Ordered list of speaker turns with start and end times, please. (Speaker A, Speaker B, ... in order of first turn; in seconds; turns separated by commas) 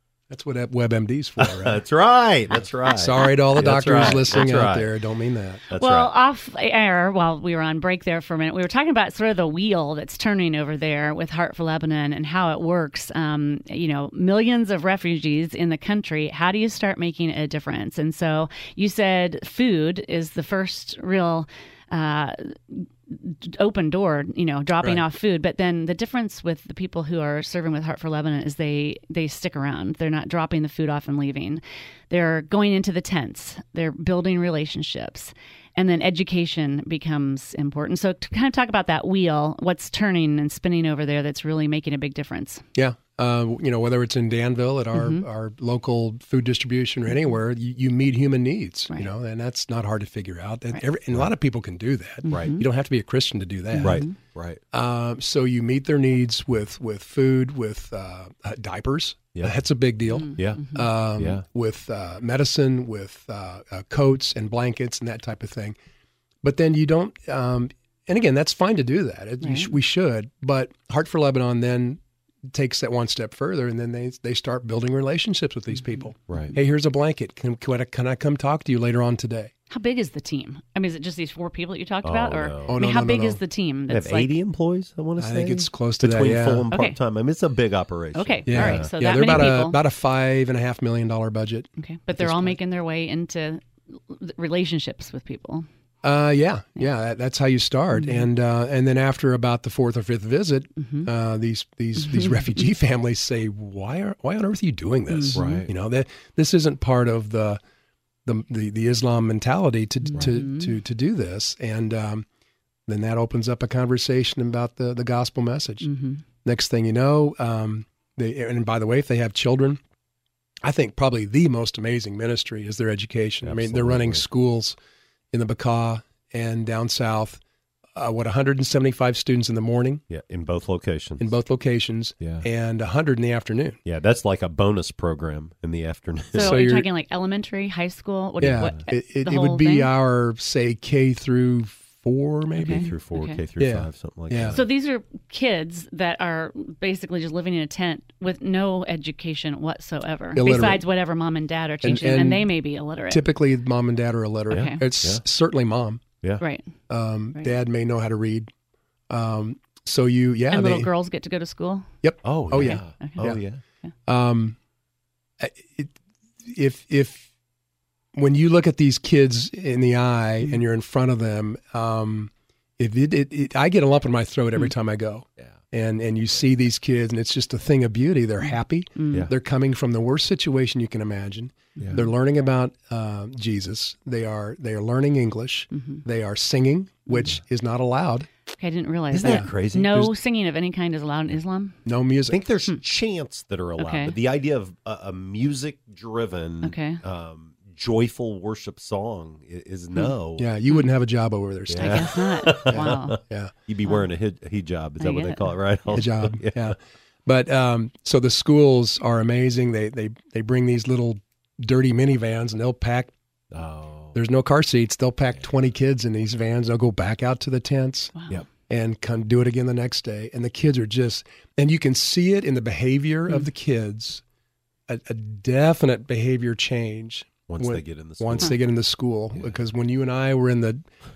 Speaker A: 0.3-1.8, Speaker B: 1.4-4.9, Speaker A: 2.9-5.6, Speaker B: 5.7-6.1, Speaker C: 5.8-42.6, Speaker A: 42.8-54.0, Speaker C: 44.9-45.2, Speaker C: 52.3-52.6, Speaker B: 52.3-52.6, Speaker C: 53.7-54.1, Speaker B: 53.8-54.6, Speaker A: 54.7-65.8, Speaker C: 60.1-60.9, Speaker B: 60.4-60.6, Speaker B: 61.2-61.4, Speaker A: 66.4-72.0, Speaker C: 69.4-69.8, Speaker A: 72.5-79.5, Speaker C: 75.8-76.4, Speaker B: 76.3-76.5, Speaker C: 79.7-84.3, Speaker B: 82.0-82.8, Speaker A: 82.7-83.4, Speaker B: 83.9-89.6, Speaker A: 85.2-86.7, Speaker C: 86.7-87.0, Speaker C: 88.2-89.8, Speaker A: 88.5-92.6, Speaker C: 91.8-95.7, Speaker A: 96.0-107.6, Speaker C: 98.0-98.3, Speaker C: 100.8-101.1, Speaker C: 102.0-102.6, Speaker C: 105.1-105.7, Speaker B: 105.3-105.7, Speaker A: 108.3-112.3, Speaker C: 110.1-110.8, Speaker A: 112.9-115.9, Speaker C: 115.8-116.2, Speaker A: 116.4-119.8, Speaker A: 120.6-124.8, Speaker B: 123.4-124.2, Speaker A: 125.3-127.4, Speaker A: 128.0-130.0, Speaker B: 130.1-131.3, Speaker A: 131.2-133.8, Speaker B: 132.2-132.5, Speaker B: 133.9-136.6, Speaker C: 136.3-139.9, Speaker A: 136.4-136.9, Speaker A: 138.4-142.9, Speaker B: 138.5-138.7, Speaker C: 142.6-143.4, Speaker B: 142.6-144.6, Speaker A: 143.6-144.6, Speaker C: 144.4-153.2, Speaker A: 150.3-150.8, Speaker A: 151.8-152.5, Speaker A: 153.1-156.0, Speaker C: 154.5-154.8, Speaker B: 154.5-155.2, Speaker C: 156.4-156.7, Speaker A: 156.9-158.5, Speaker A: 159.1-160.9, Speaker C: 160.5-161.9, Speaker A: 162.0-163.4, Speaker B: 162.2-163.6, Speaker C: 162.5-163.3, Speaker A: 164.1-164.6, Speaker A: 165.4-167.3, Speaker A: 168.2-188.3, Speaker C: 178.5-179.3, Speaker C: 181.8-182.1, Speaker C: 185.7-186.0, Speaker C: 188.6-191.8, Speaker B: 189.1-190.1, Speaker A: 191.9-192.4, Speaker B: 192.3-200.5, Speaker C: 193.8-194.2, Speaker C: 196.6-197.0, Speaker A: 200.4-203.5, Speaker B: 201.7-206.8, Speaker C: 201.8-203.2, Speaker C: 205.0-205.5, Speaker A: 205.9-213.1, Speaker B: 213.5-214.2, Speaker A: 214.1-218.1, Speaker C: 218.2-218.4, Speaker A: 218.7-224.2, Speaker A: 224.9-230.8, Speaker B: 227.5-228.6